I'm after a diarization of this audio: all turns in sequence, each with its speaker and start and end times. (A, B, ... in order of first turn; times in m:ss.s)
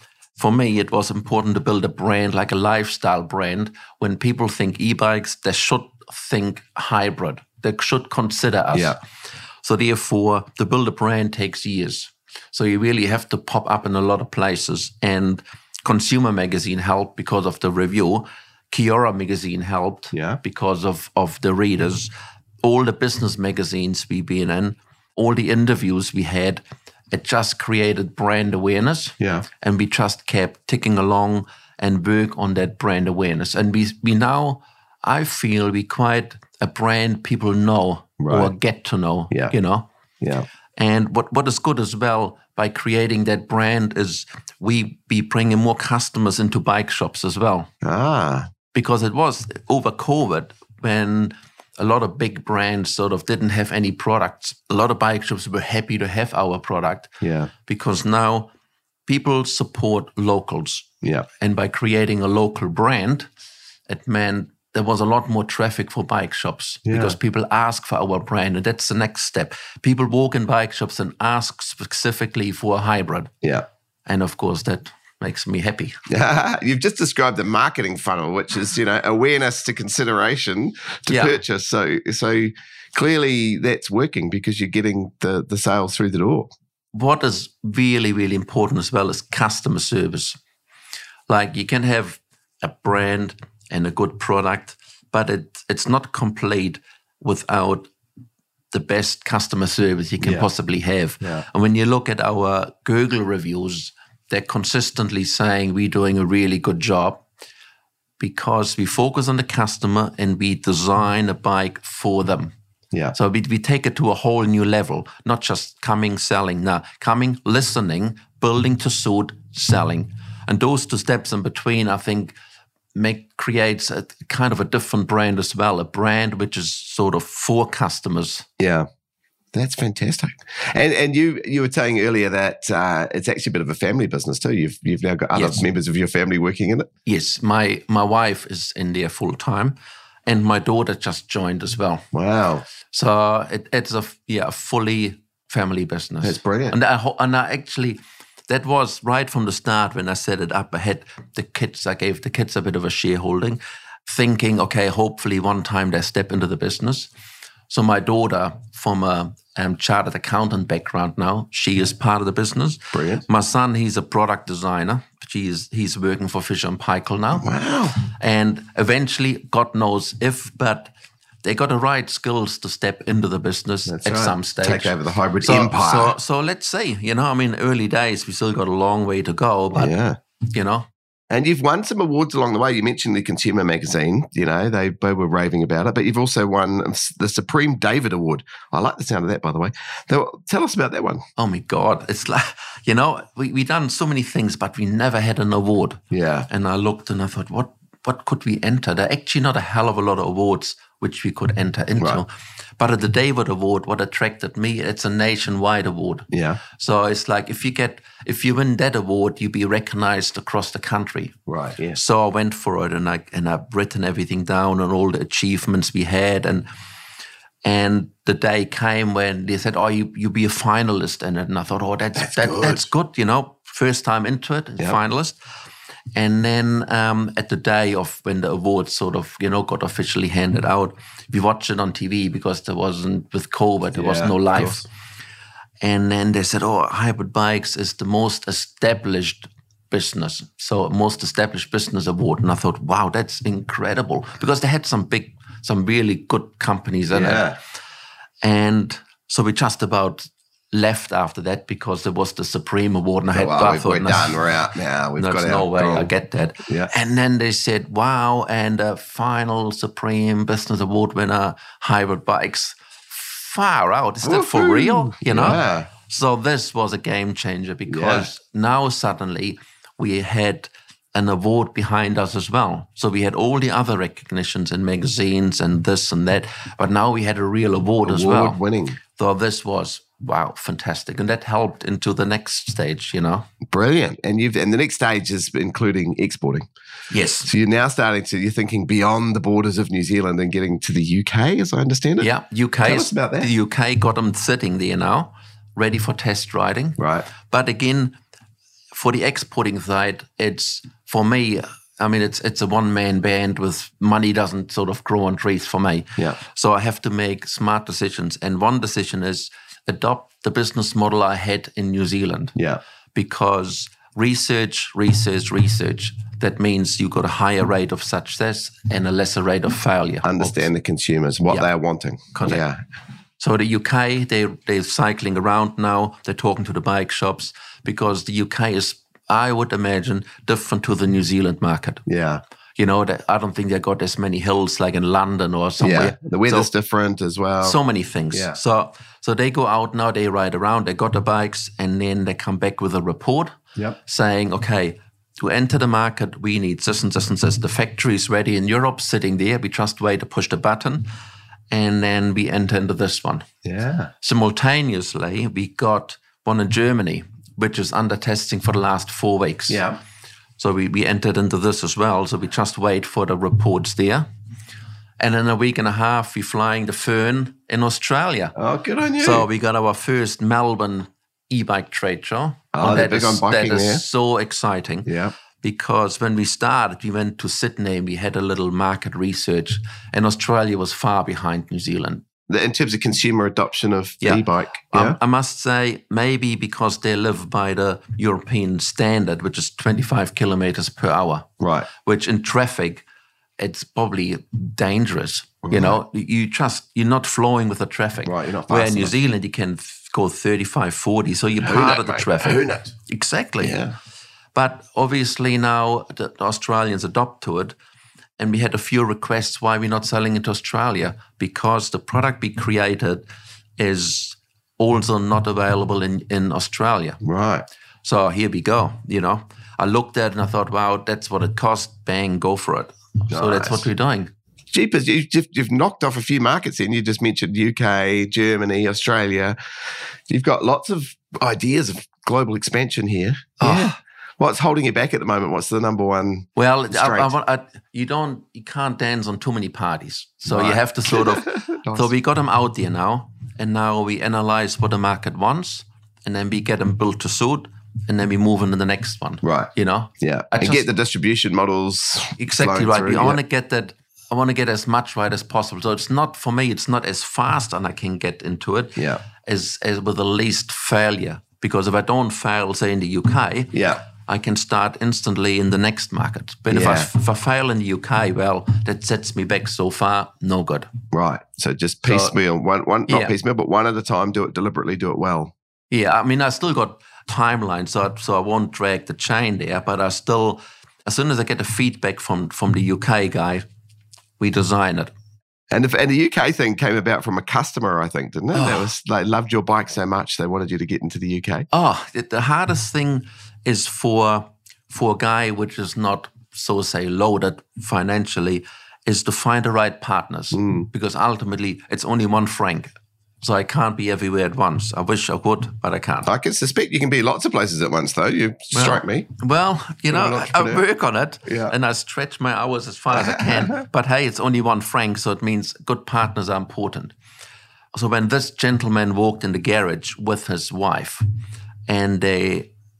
0:00.4-0:09.0 A
0:09.6-0:22.1 A
0:20.1-0:20.4 B
0:22.6-0:39.9 A
0:29.2-0:29.5 B
0:38.2-0:38.5 B
0:40.2-0:40.5 B
0:40.8-0:47.7 A
0:47.8-0:48.5 B
0:48.7-0:57.1 A
0:57.2-0:57.5 B
0:57.6-0:58.5 A
0:59.1-1:03.3 A
1:01.0-1:01.3 B
1:03.9-1:13.3 A
1:06.8-1:07.2 B
1:14.0-1:16.0 A
1:16.1-1:26.5 B
1:21.1-1:21.4 A
1:26.9-1:30.4 A
1:31.3-1:37.9 A
1:38.7-1:47.2 A
1:40.2-1:40.5 B
1:41.2-1:41.4 B
1:48.2-1:52.5 A
1:53.1-2:02.3 A
2:02.9-2:08.5 A
2:08.6-2:08.9 B
2:09.5-2:16.9 B
2:15.3-2:15.6 A
2:17.0-2:19.7 A
2:20.2-2:22.0 A
2:22.1-2:22.6 B
2:22.8-2:37.1 A
2:26.2-2:26.7 B
2:37.7-2:50.9 A
2:42.9-2:43.2 B
2:47.4-2:47.9 B
2:51.4-2:59.9 A
2:53.9-2:56.2 B
2:59.7-3:00.2 B
3:00.5-3:00.9 A
3:01.3-3:11.2 B
3:11.4-3:31.4 A
3:16.1-3:16.5 B
3:26.3-3:26.6 B
3:31.5-3:32.0 B
3:31.9-3:36.7 A
3:37.6-3:45.4 A
3:42.2-3:42.9 B
3:46.1-3:54.9 A
3:53.9-3:54.8 B
3:55.8-4:07.5 A
4:07.1-4:07.6 B
4:08.4-4:14.4 A
4:13.3-4:16.1 B
4:15.2-4:38.6 A
4:24.2-4:25.9 B
4:27.9-4:28.3 B
4:38.0-4:39.0 B
4:39.1-4:43.5 A
4:43.7-4:46.6 B
4:47.1-4:47.5 A
4:47.4-4:52.3 B
4:52.2-4:58.2 A
4:52.8-4:53.5 B
4:57.0-4:57.2 B
4:58.9-5:12.6 A
5:12.6-5:12.8 B
5:13.1-5:20.6 A
5:20.2-5:22.8 B
5:22.3-5:22.6 A
5:23.4-5:32.0 A
5:32.0-5:32.4 B
5:32.8-5:36.7 A
5:35.8-5:37.8 B
5:37.6-5:51.1 A
5:38.3-5:38.6 B
5:51.7-5:53.5 A
5:53.6-5:54.1 B
5:54.2-5:59.8 A
5:59.7-6:00.0 B
6:00.6-6:04.3 A
6:05.2-6:08.5 A
6:08.5-6:09.4 B
6:09.2-6:22.2 A
6:12.7-6:14.0 B
6:15.0-6:15.3 B
6:22.5-6:25.2 B
6:24.2-6:33.0 A
6:31.6-6:31.9 B
6:33.6-6:43.8 A
6:35.6-6:36.0 B
6:38.2-6:39.1 B
6:41.6-6:42.9 B
6:43.6-6:43.9 B
6:44.5-6:47.7 A
6:48.4-6:53.2 A
6:53.8-6:57.2 A
6:57.2-6:57.6 B
6:58.0-7:04.3 A
7:03.3-7:03.8 B
7:04.7-7:17.3 B
7:13.6-7:14.0 A
7:16.6-7:30.9 A
7:20.5-7:22.1 B
7:29.4-7:33.4 B
7:32.4-7:50.9 A
7:39.0-7:39.2 B
7:43.7-7:44.0 B
7:46.7-7:47.1 B
7:51.1-7:55.5 B
7:52.0-7:52.3 A
7:53.1-7:53.3 A
7:55.9-8:03.6 A
8:04.4-8:05.1 A
8:05.7-8:11.7 B
8:08.5-8:08.8 A
8:11.7-8:26.3 A
8:20.5-8:20.9 B
8:26.2-8:29.3 B
8:28.7-8:37.1 A
8:30.1-8:30.8 B
8:31.4-8:31.7 B
8:33.1-8:33.8 B
8:37.9-8:41.2 A
8:41.9-8:42.7 A